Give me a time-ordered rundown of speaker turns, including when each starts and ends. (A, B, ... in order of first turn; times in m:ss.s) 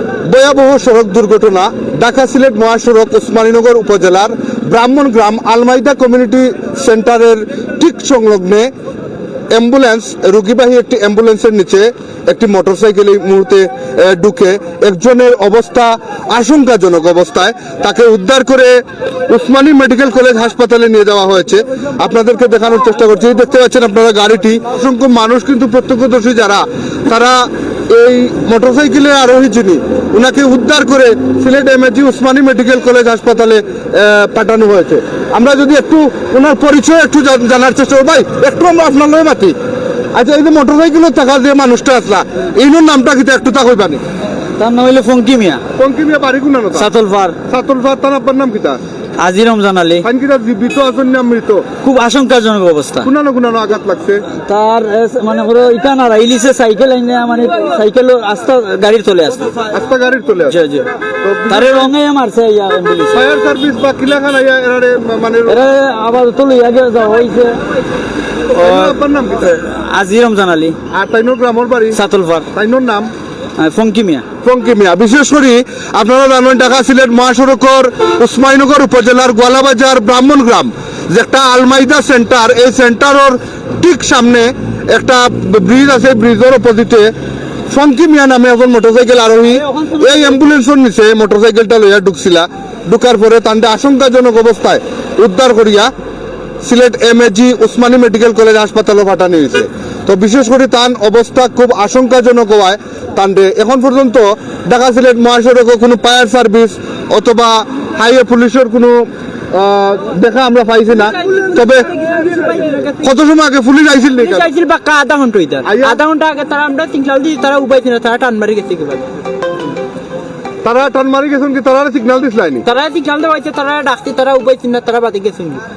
0:00.2-0:08.7 A
0:09.5-0:18.7 A
0:19.3-0:39.5 A
0:40.1-0:44.0 A
0:44.6-0:45.6 B
0:45.8-0:46.9 A
0:46.7-0:47.4 B
0:47.5-0:48.8 A
0:49.2-0:50.0 B
0:50.0-0:51.7 A
0:51.8-0:53.1 B
0:53.0-0:54.2 A
0:54.4-0:59.6 B
0:59.7-1:00.6 A
1:00.5-1:00.9 B
1:01.2-1:01.9 A
1:01.5-1:03.2 B
1:03.1-1:05.6 A
1:05.5-1:07.6 B
1:08.5-1:09.5 A
1:08.6-1:10.8 B
1:10.9-1:12.0 A
1:11.9-1:12.5 B
1:12.5-1:13.1 A
1:13.6-1:14.2 B
1:14.4-1:27.1 A
1:27.7-1:35.9 A
1:36.6-1:51.9 A
1:51.2-1:53.0 C
1:53.0-1:54.5 A
1:54.2-1:59.1 C
1:55.6-1:56.0 A
2:00.6-2:02.6 A
2:02.6-2:05.6 C